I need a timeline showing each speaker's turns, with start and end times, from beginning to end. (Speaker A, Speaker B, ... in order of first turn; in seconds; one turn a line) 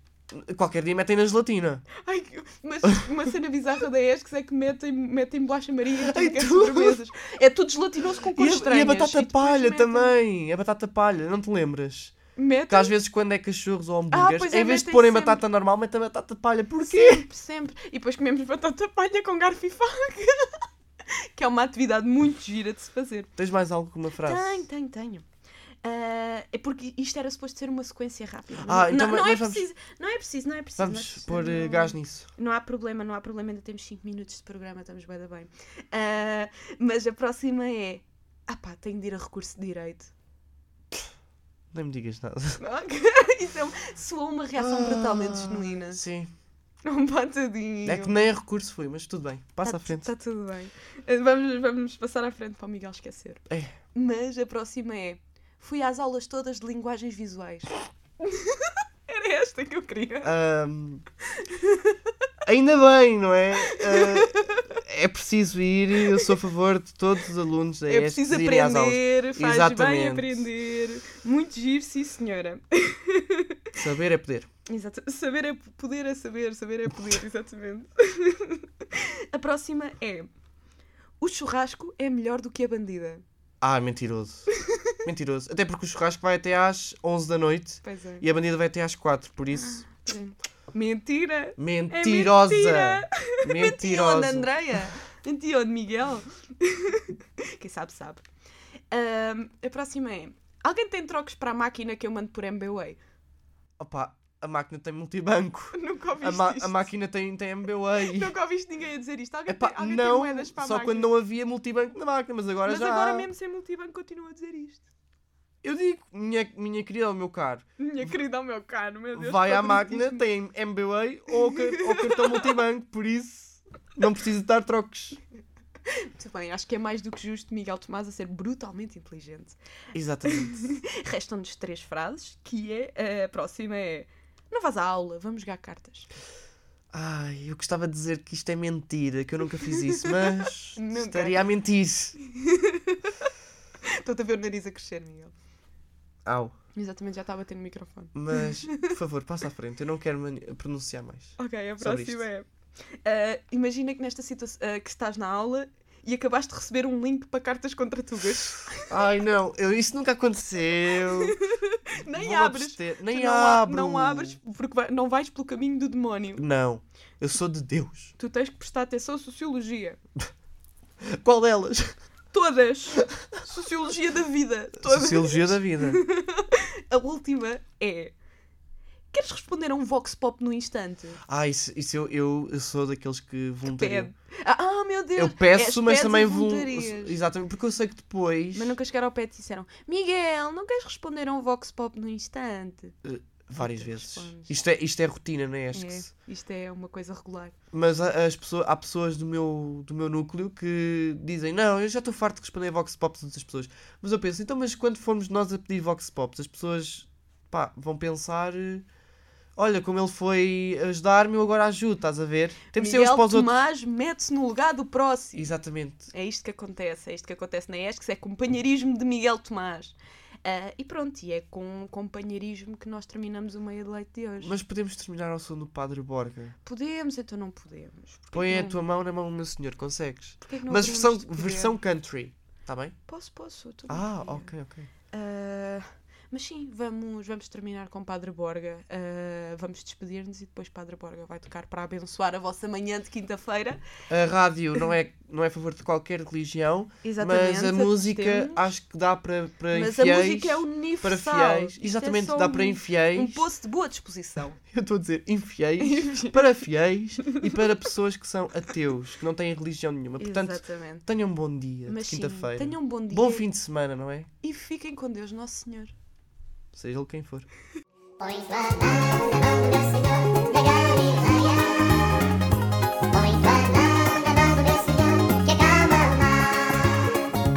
Speaker A: 0.3-1.9
Speaker B: 2.0-10.1
Speaker A: 6.0-7.0
Speaker A: 8.3-12.2
Speaker B: 12.3-12.9
Speaker A: 12.7-17.2
Speaker B: 14.1-15.4
Speaker B: 16.8-20.7
Speaker B: 21.3-23.3
Speaker A: 23.4-24.6
Speaker B: 24.2-25.2
Speaker B: 25.8-40.1
Speaker A: 28.6-29.6
Speaker A: 30.8-32.3
Speaker A: 41.7-42.6
Speaker B: 42.6-46.0
Speaker A: 44.6-46.3
Speaker B: 46.8-48.2
Speaker A: 47.8-50.1
Speaker B: 49.6-60.3
Speaker A: 53.5-53.7
Speaker A: 60.2-61.0
Speaker B: 61.4-62.0
Speaker A: 62.4-70.5
Speaker B: 63.6-64.8
Speaker B: 67.9-73.6
Speaker A: 73.7-74.5
Speaker B: 74.7-80.3
Speaker B: 81.2-83.2
Speaker A: 83.6-84.5
Speaker B: 84.5-85.0
Speaker A: 85.0-89.9
Speaker B: 87.8-88.2
Speaker B: 89.6-98.2
Speaker A: 91.6-94.8
Speaker B: 98.9-103.0
Speaker A: 103.8-108.3
Speaker B: 105.7-106.9
Speaker B: 108.0-111.1
Speaker A: 109.5-113.3
Speaker B: 112.6-114.8
Speaker A: 115.6-118.1
Speaker B: 117.8-120.2
Speaker A: 119.1-125.2
Speaker B: 121.5-122.4
Speaker B: 125.8-129.6
Speaker A: 129.9-130.7
Speaker B: 130.2-136.1
Speaker A: 136.9-142.2
Speaker B: 139.9-141.5
Speaker B: 142.3-143.3
Speaker B: 143.9-145.3
Speaker A: 146.2-146.5
Speaker B: 146.7-148.9
Speaker A: 148.1-152.2
Speaker B: 151.4-152.5
Speaker B: 153.0-158.9
Speaker A: 158.9-161.4
Speaker B: 161.0-166.4
Speaker A: 162.1-164.4
Speaker A: 166.4-168.1
Speaker B: 168.2-170.0
Speaker A: 171.0-171.9
Speaker B: 172.3-178.1
Speaker A: 174.8-176.0
Speaker B: 179.1-181.2
Speaker A: 181.3-184.1
Speaker B: 183.7-187.2
Speaker A: 185.1-188.7
Speaker B: 188.5-193.0
Speaker A: 193.0-196.1
Speaker B: 193.6-194.5
Speaker B: 195.7-197.5
Speaker A: 197.7-208.8
Speaker A: 209.6-213.6
Speaker B: 212.7-215.5
Speaker A: 215.3-216.1
Speaker B: 216.1-224.6
Speaker A: 224.4-226.5
Speaker B: 226.6-228.8
Speaker A: 228.3-232.9
Speaker B: 230.4-231.8
Speaker B: 233.1-234.5
Speaker A: 233.9-234.9
Speaker B: 235.1-243.8
Speaker A: 244.1-253.5
Speaker B: 247.0-248.7
Speaker B: 249.7-254.6
Speaker A: 254.7-264.3
Speaker B: 255.8-256.4
Speaker B: 257.2-257.6
Speaker B: 260.2-261.0
Speaker B: 261.9-263.4
Speaker B: 264.4-265.9
Speaker A: 266.7-267.5
Speaker C: 268.2-272.2
Speaker C: 273.1-277.1